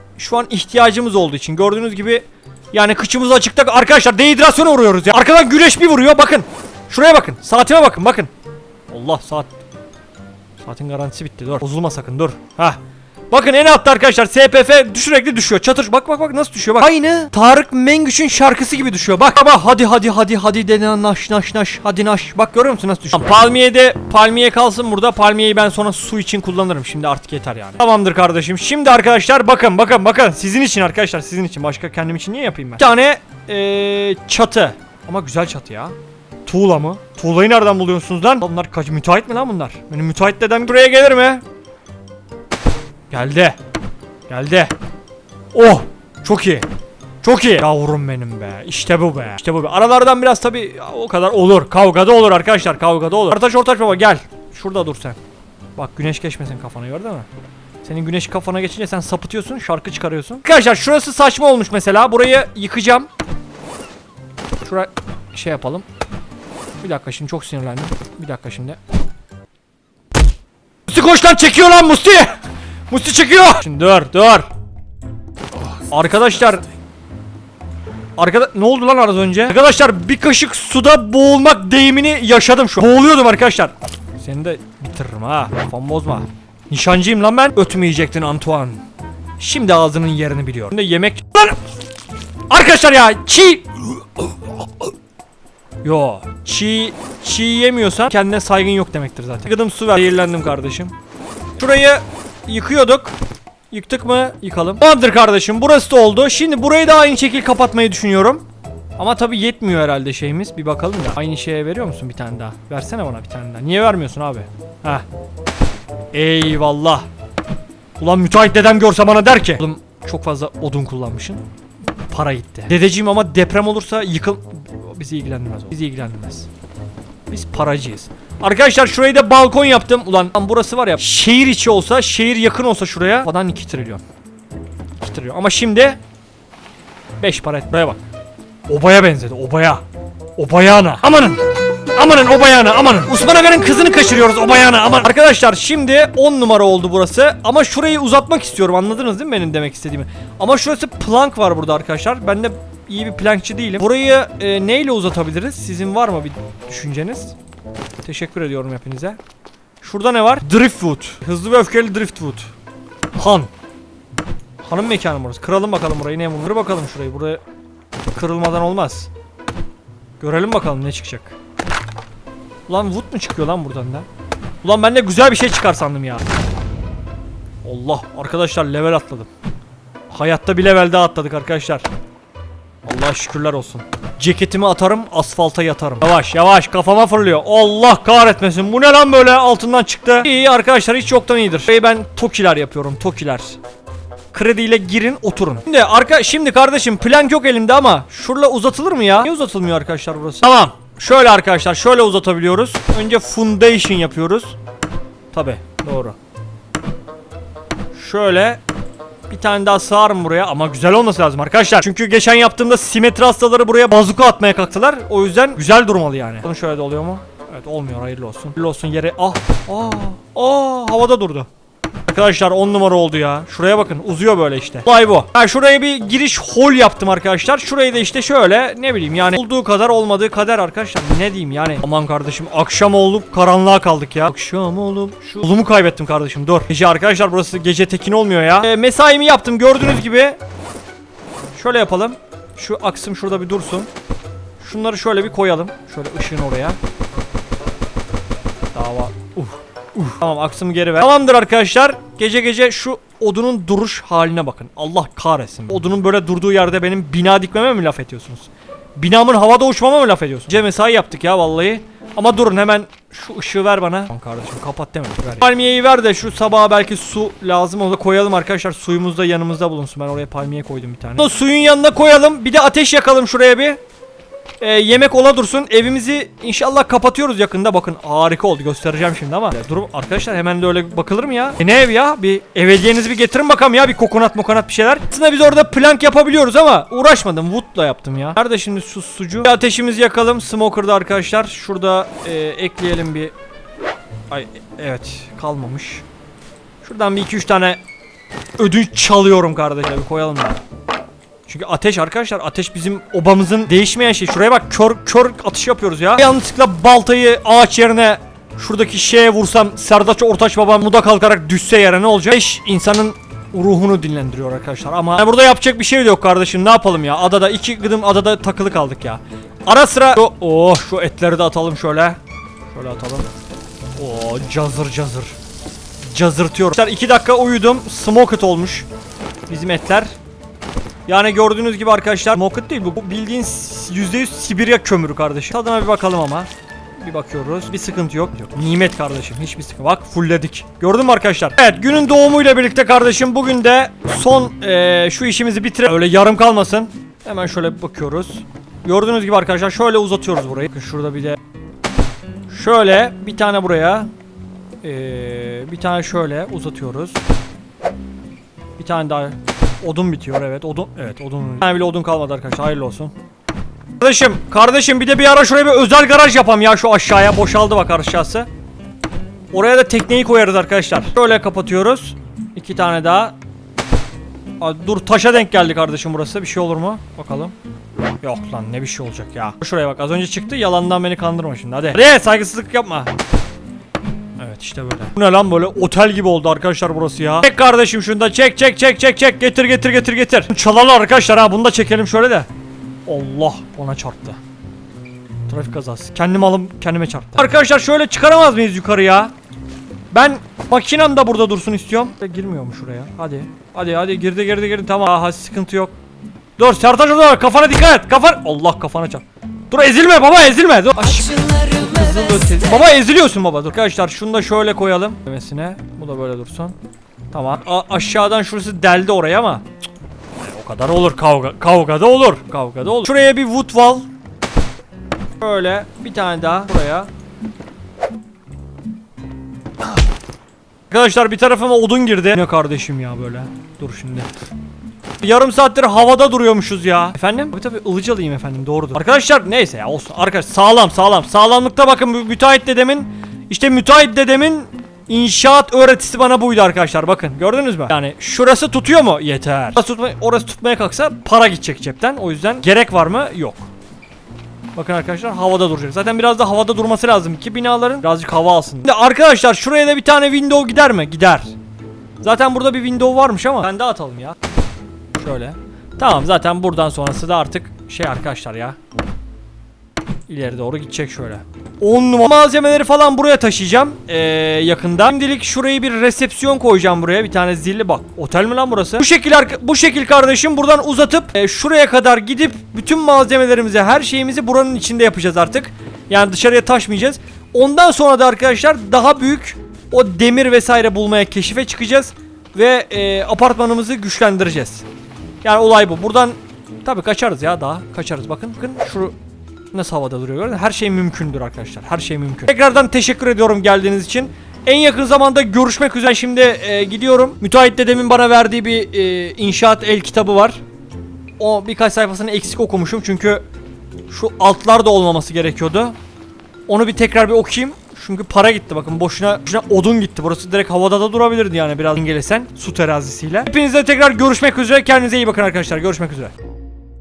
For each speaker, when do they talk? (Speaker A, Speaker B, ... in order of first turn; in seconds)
Speaker A: 0.2-8.3, 8.9-9.5, 10.6-12.8, 13.3-36.0, 36.5-41.4, 43.1-43.6, 44.3-44.7, 45.5-46.7, 47.2-55.2, 55.8-57.3, 57.8-63.1, 64.6-65.8, 66.8-68.8, 70.9-74.5, 75.9-76.6, 78.2-88.8, 89.4-91.6, 92.5-94.3, 95.8-101.0, 101.6-103.2, 103.7-108.5, 109.0-115.0, 116.1-117.1, 118.0-121.4, 122.1-126.5, 127.3-134.0, 135.0-136.0, 137.2-138.0, 138.7-139.8, 140.4-157.3, 158.0-159.2, 159.8-162.5, 163.2-163.5, 164.6-167.4, 168.1-169.1, 170.2-171.3, 172.7-174.1, 174.6-176.2, 177.7-179.3, 180.1-181.9, 182.9-193.6, 194.3-204.6, 205.3-206.2, 207.9-208.6, 209.3-221.5, 222.1-240.4, 241.6-243.9, 244.6-246.8, 248.7-273.8, 274.6-293.3, 294.3-296.1, 296.8-297.8, 298.6-300.6, 301.5-322.2, 322.7-323.3, 324.0-325.4, 326.0-328.9, 329.5-330.1, 331.1-351.4, 352.5-354.1, 354.8-357.2, 358.8-363.1, 364.0-368.5, 369.5-373.4, 374.6-377.6, 378.2-383.1, 384.4-392.5, 393.1-394.4, 395.5-399.3, 400.1-405.9, 406.6-416.8, 417.3-419.7, 420.4-424.1, 425.4-427.1, 430.9-434.3, 435.2-453.7, 454.8-461.5, 462.2-464.4, 465.1-468.8, 470.3-494.9, 495.4-499.1, 499.7-510.6, 511.4-513.4, 514.1-516.0, 516.7-526.3